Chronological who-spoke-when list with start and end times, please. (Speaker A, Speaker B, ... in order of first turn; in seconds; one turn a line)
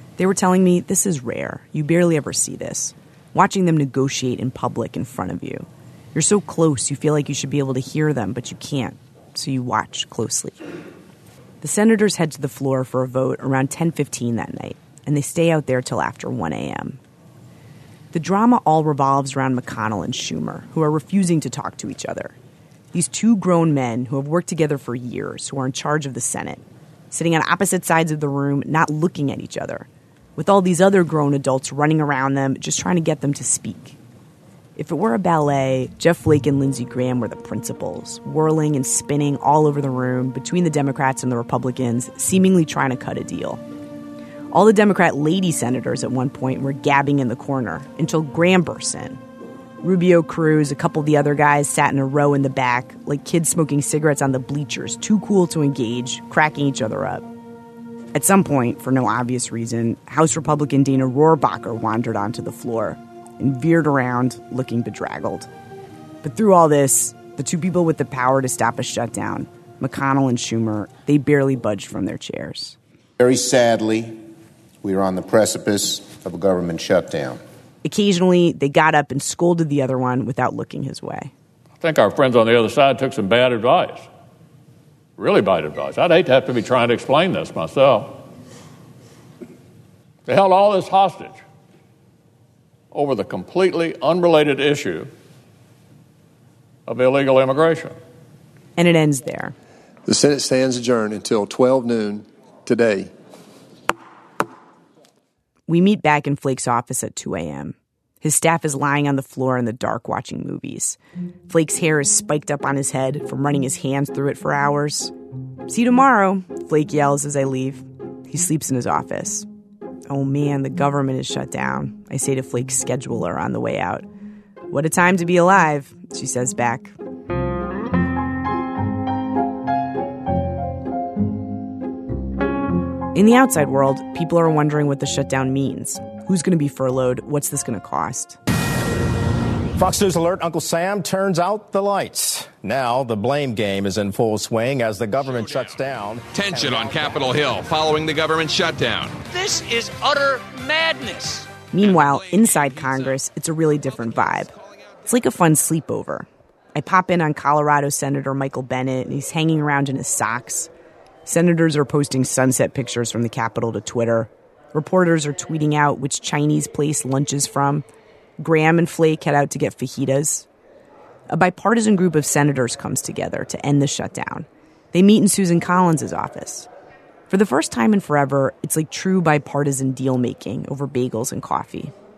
Speaker A: 0.2-10.6
Speaker A: 11.6-17.0
Speaker A: 18.1-22.4
Speaker A: 22.9-34.0
Speaker A: 34.8-43.6
Speaker A: 44.5-49.2
Speaker A: 49.8-57.3
Speaker A: 58.1-65.5
Speaker A: 66.2-72.8
Speaker B: 73.2-74.2
Speaker B: 74.8-77.4
Speaker A: 77.8-81.3
Speaker C: 81.8-84.1
Speaker C: 85.2-88.2
Speaker C: 90.3-91.4
Speaker C: 92.9-95.1
Speaker C: 96.9-98.0
Speaker A: 98.8-99.5
Speaker D: 100.1-103.1
Speaker A: 105.7-111.0
Speaker A: 111.5-115.1
Speaker A: 115.7-119.5
Speaker A: 120.1-124.1
Speaker A: 124.7-127.0
Speaker A: 133.1-138.4
Speaker E: 139.8-146.3
Speaker F: 146.4-149.2
Speaker A: 151.7-154.5
Speaker A: 155.1-160.7
Speaker A: 161.3-167.8
Speaker A: 168.4-170.5
Speaker A: 171.3-176.7
Speaker A: 177.3-181.9